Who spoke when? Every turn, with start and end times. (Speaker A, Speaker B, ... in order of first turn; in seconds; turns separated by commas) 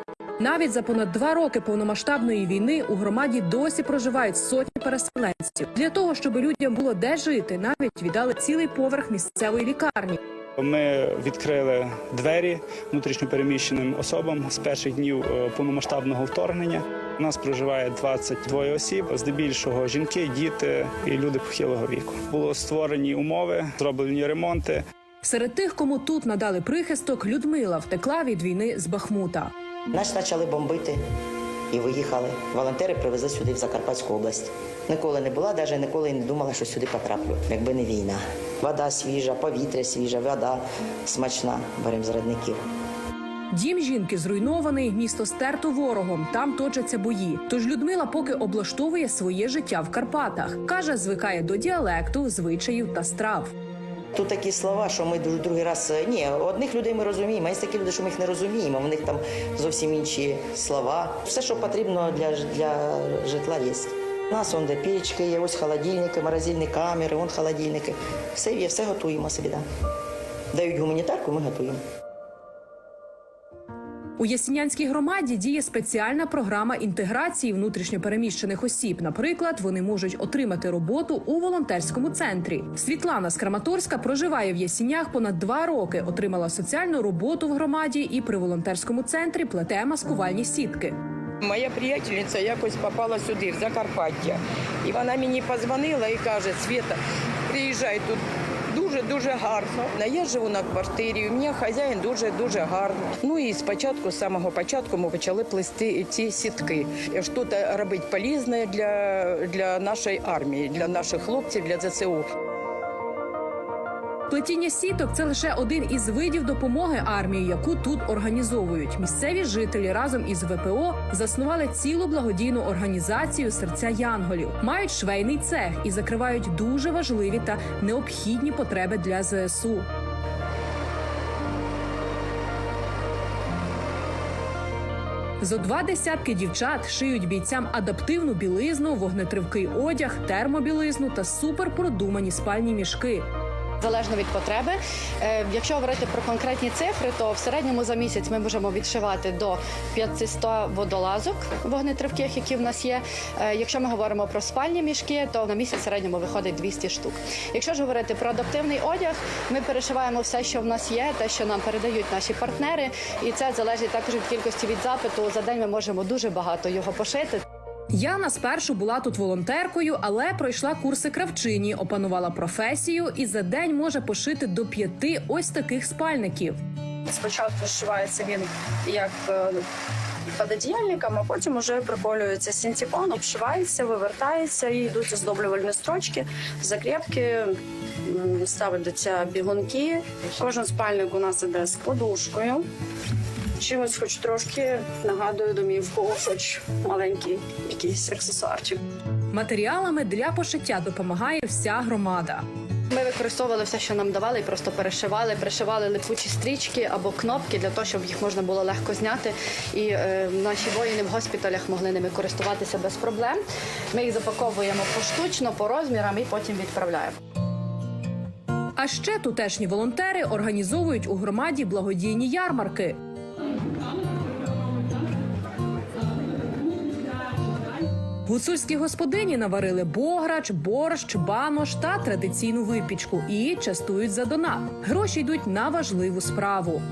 Speaker A: 0.4-10.2, Speaker B: 10.6-24.8, Speaker A: 25.2-29.5, Speaker C: 29.9-31.0, Speaker C: 31.7-42.6, Speaker A: 43.5-53.5, Speaker C: 54.1-69.6, Speaker C: 70.5-71.8, Speaker A: 74.2-91.0, Speaker D: 91.4-97.0, Speaker D: 97.5-112.3, Speaker A: 114.3-129.9, Speaker A: 135.4-143.3, Speaker E: 143.8-167.4, Speaker A: 167.9-176.6, Speaker F: 177.1-179.6, Speaker F: 180.4-192.7, Speaker F: 193.6-198.8, Speaker A: 199.3-202.4, Speaker E: 202.9-213.4, Speaker E: 213.9-217.2, Speaker A: 218.8-223.0, Speaker A: 228.3-236.8